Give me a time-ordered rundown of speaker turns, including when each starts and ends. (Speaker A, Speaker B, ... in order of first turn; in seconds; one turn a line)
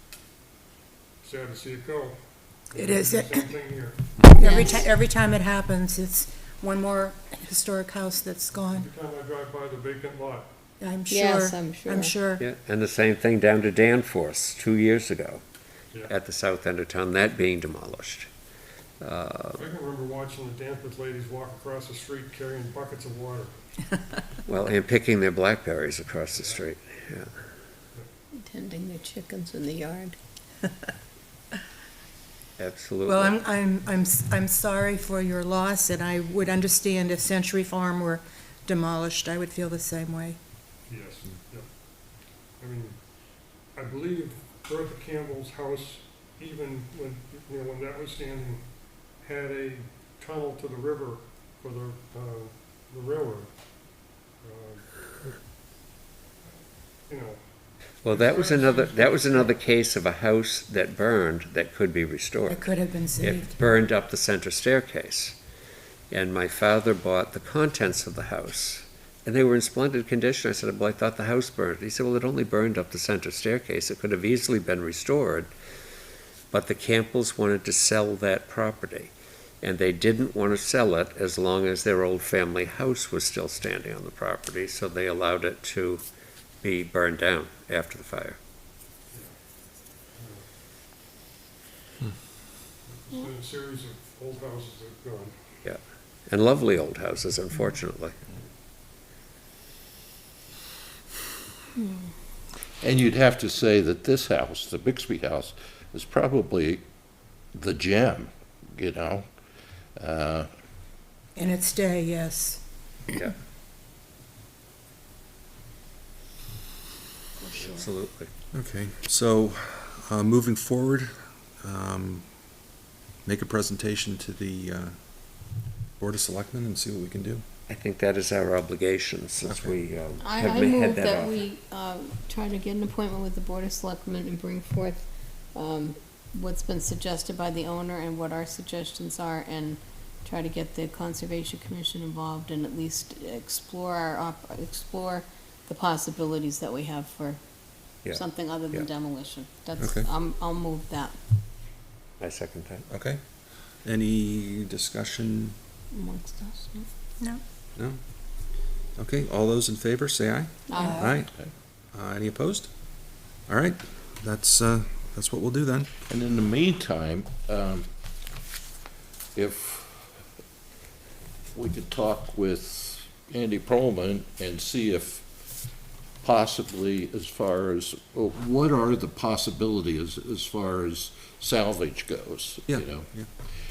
Speaker A: 1.2-4.2
Speaker B: 2.7-3.5
Speaker B: 4.3-8.9
Speaker C: 4.4-4.7
Speaker A: 8.7-10.5
Speaker B: 10.8-12.4
Speaker C: 11.1-12.1
Speaker D: 12.4-15.4
Speaker D: 16.1-18.3
Speaker D: 19.0-19.6
Speaker A: 19.6-23.8
Speaker D: 24.5-27.3
Speaker A: 26.3-26.7
Speaker C: 28.4-30.2
Speaker D: 32.6-33.4
Speaker B: 33.1-40.4
Speaker A: 40.9-43.0
Speaker A: 43.7-55.5
Speaker A: 56.4-59.6
Speaker D: 58.0-65.4
Speaker B: 62.5-63.6
Speaker D: 66.1-75.5
Speaker D: 76.5-86.0
Speaker D: 86.6-88.4
Speaker A: 89.1-90.5
Speaker A: 92.8-95.3
Speaker D: 95.6-98.2
Speaker C: 101.8-102.1
Speaker E: 102.8-106.8
Speaker E: 107.4-109.3
Speaker E: 110.0-110.5
Speaker B: 111.4-112.6
Speaker B: 117.4-117.9
Speaker D: 117.5-118.3
Speaker F: 118.5-122.5
Speaker F: 123.2-127.4
Speaker D: 127.7-131.4
Speaker F: 129.4-129.8
Speaker C: 130.2-151.2
Speaker D: 148.0-148.9
Speaker F: 149.8-150.1
Speaker D: 152.2-152.9
Speaker F: 152.9-153.2
Speaker F: 153.8-155.6
Speaker C: 155.9-156.9
Speaker F: 157.8-158.0
Speaker F: 159.0-165.9
Speaker C: 160.7-161.0
Speaker B: 160.8-161.2
Speaker E: 166.1-167.9
Speaker E: 169.3-170.1
Speaker E: 171.5-175.5
Speaker E: 176.2-183.1
Speaker F: 182.7-183.3